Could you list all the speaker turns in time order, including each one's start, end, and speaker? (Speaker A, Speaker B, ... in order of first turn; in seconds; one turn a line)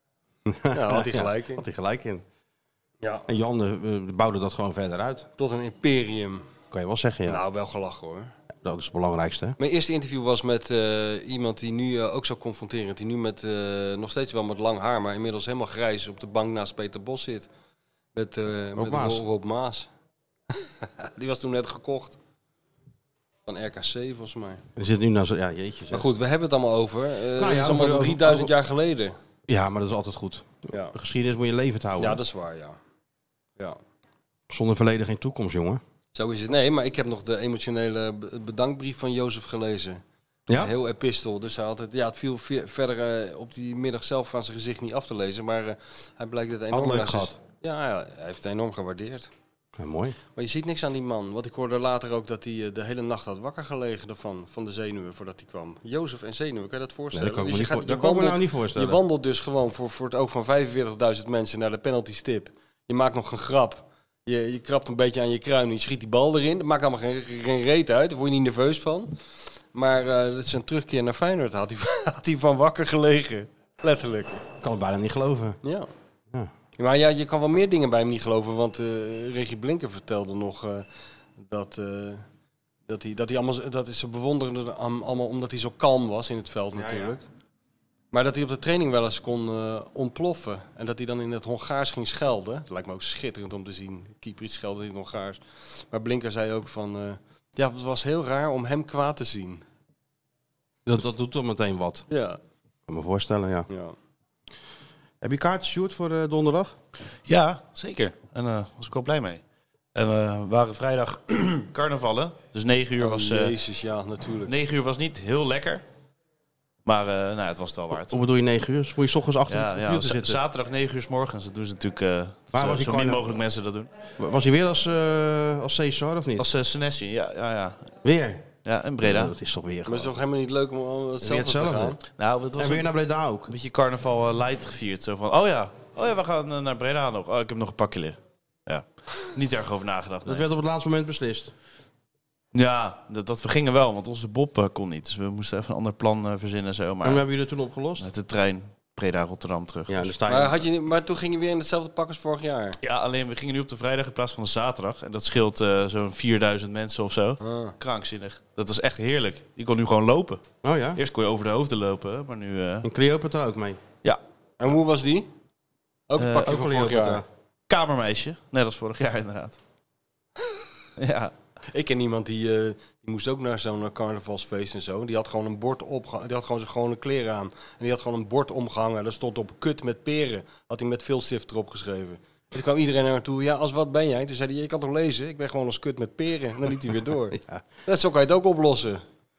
Speaker A: 0.5-2.2
Speaker B: 0.7-1.6
Speaker A: 3.3-5.3
Speaker B: 5.4-6.4
Speaker A: 6.7-7.4
Speaker B: 7.3-8.3
Speaker A: 8.6-9.6
Speaker B: 9.6-17.5
Speaker B: 18.1-19.9
Speaker A: 18.8-19.2
Speaker B: 20.6-22.2
Speaker B: 23.5-24.6
Speaker A: 24.8-26.1
Speaker B: 25.9-29.1
Speaker A: 27.4-28.5
Speaker A: 29.5-32.2
Speaker B: 32.0-32.8
Speaker A: 34.5-35.8
Speaker B: 36.1-40.0
Speaker B: 40.5-49.3
Speaker A: 46.7-47.4
Speaker A: 49.8-50.2
Speaker B: 50.4-69.2
Speaker A: 57.1-59.0
Speaker B: 69.7-74.4
Speaker A: 74.6-75.6
Speaker B: 75.6-75.9
Speaker B: 76.8-80.8
Speaker B: 81.4-82.2
Speaker B: 82.9-87.2
Speaker A: 86.7-87.2
Speaker B: 88.1-99.6
Speaker A: 100.9-102.0
Speaker B: 102.1-102.4
Speaker A: 102.9-103.7
Speaker B: 103.7-104.0
Speaker A: 105.2-106.8
Speaker C: 107.3-109.4
Speaker C: 110.0-113.5
Speaker B: 113.0-114.5
Speaker C: 114.5-115.8
Speaker C: 116.9-118.2
Speaker A: 117.9-120.4
Speaker C: 119.5-123.9
Speaker A: 122.5-123.4
Speaker A: 124.2-126.5
Speaker C: 126.4-127.9
Speaker A: 128.0-128.5
Speaker C: 128.6-129.3
Speaker A: 129.0-130.1
Speaker B: 129.9-132.0
Speaker A: 131.2-132.0
Speaker C: 132.2-132.9
Speaker A: 132.6-133.5
Speaker C: 133.5-140.4
Speaker A: 140.2-141.5
Speaker C: 142.5-147.2
Speaker A: 147.0-148.1
Speaker C: 148.0-150.2
Speaker A: 149.9-150.6
Speaker B: 150.3-152.8
Speaker C: 152.8-160.4
Speaker B: 157.4-157.8
Speaker A: 160.6-161.0
Speaker C: 161.0-162.9
Speaker A: 162.8-163.8
Speaker B: 164.6-165.3
Speaker B: 166.1-167.2
Speaker C: 166.2-166.5
Speaker A: 166.4-167.2
Speaker C: 167.7-169.6
Speaker C: 171.0-171.3
Speaker B: 171.7-189.0
Speaker A: 187.3-187.6